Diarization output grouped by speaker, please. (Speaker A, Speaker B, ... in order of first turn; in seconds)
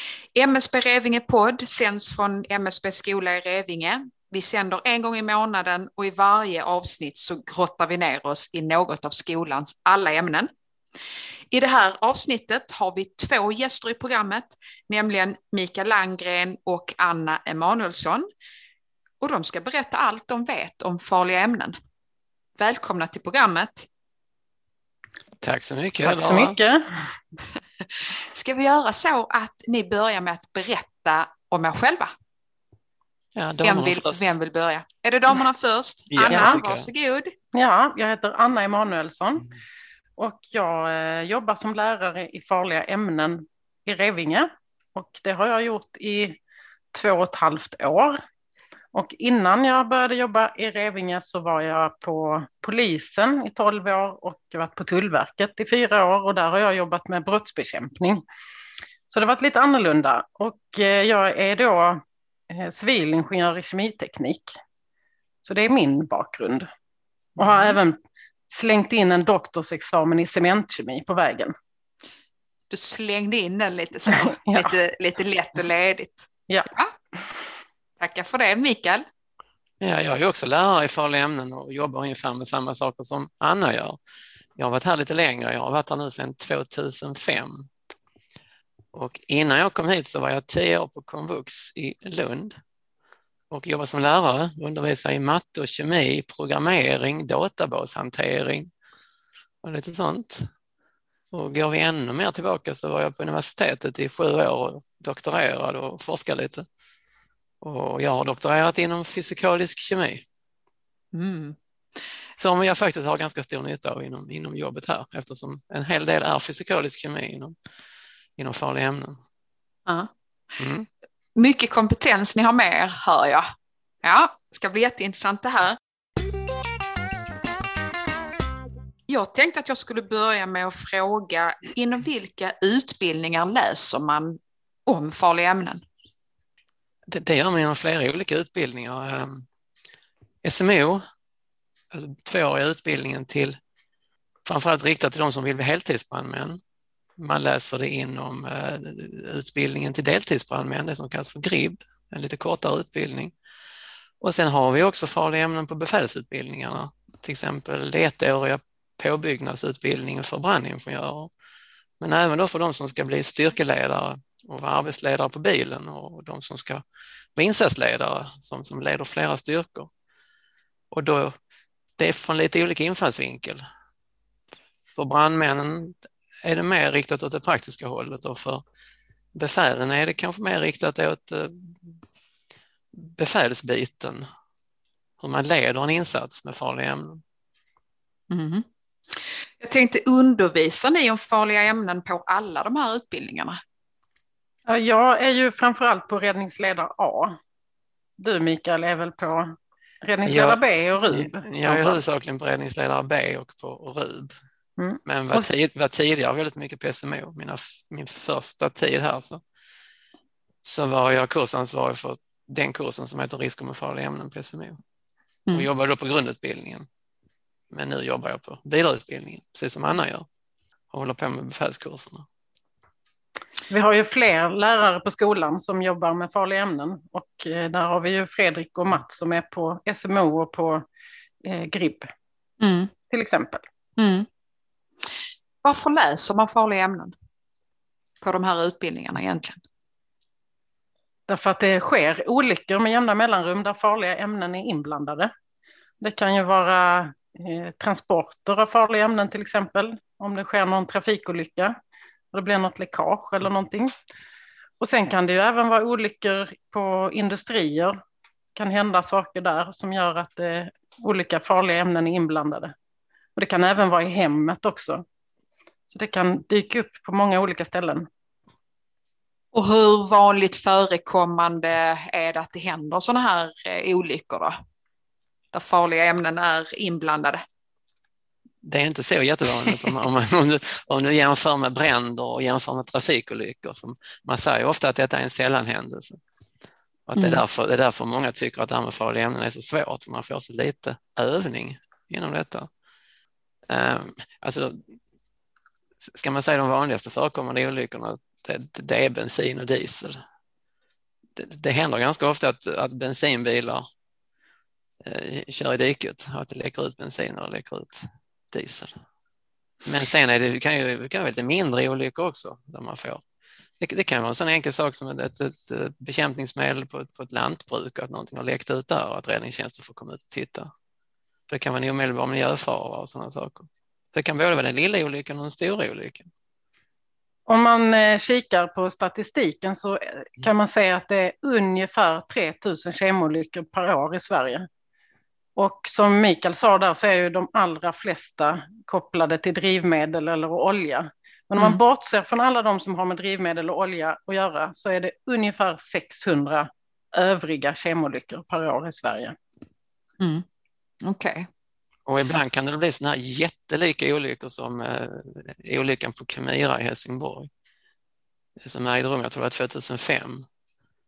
Speaker A: 0.3-10.5, 11.5-18.3, 19.2-21.8, 22.6-23.9, 28.0-32.1, 33.6-37.4, 67.4-67.8, 72.7-76.9, 78.0-79.0, 111.1-111.6, 121.3-123.5, 124.0-125.8, 129.1-135.8, 188.3-188.7, 189.6-193.6, 232.6-232.9, 234.0-234.3, 235.6-237.1, 238.2-239.6, 269.5-274.6, 275.5-277.4, 279.6-279.9, 287.2-287.4, 351.0-351.5
Speaker B: 25.4-26.6, 33.4-34.3, 36.1-36.9, 79.8-84.0, 84.6-87.7, 88.9-92.5, 93.5-98.7, 99.6-100.5, 101.3-106.7, 107.6-110.2, 112.3-117.6, 118.4-119.2, 120.6-120.9, 137.1-139.5, 140.4-141.0, 141.9-143.6, 144.4-146.6, 147.2-153.3, 154.2-161.3, 162.0-166.8, 167.4-169.9, 170.9-171.4, 172.0-173.6, 174.9-178.6, 179.3-182.0, 182.9-184.2, 185.2-187.2, 200.2-204.3, 205.1-209.4, 210.6-214.8, 215.5-216.9, 217.7-220.3, 220.9-222.3, 278.6-286.2, 287.1-292.7, 293.7-294.9, 296.0-300.2, 301.4-303.9, 305.0-309.0, 309.9-313.2, 313.8-320.7, 321.5-326.3, 352.1-357.5, 358.6-360.5
Speaker C: 26.0-27.1, 36.3-36.5, 37.5-39.5, 40.2-46.4, 46.9-48.2, 48.9-58.2, 59.1-64.5, 65.4-66.7, 67.4-68.0, 68.5-71.5, 74.1-74.7, 194.7-197.4, 198.2-202.0, 204.8-205.5, 223.7-230.8, 231.4-232.1, 233.1-233.6, 241.3-245.3, 246.0-251.8, 252.3-253.9, 254.8-258.0, 258.6-262.7, 263.4-265.0, 265.9-268.1, 327.5-334.7, 335.6-349.4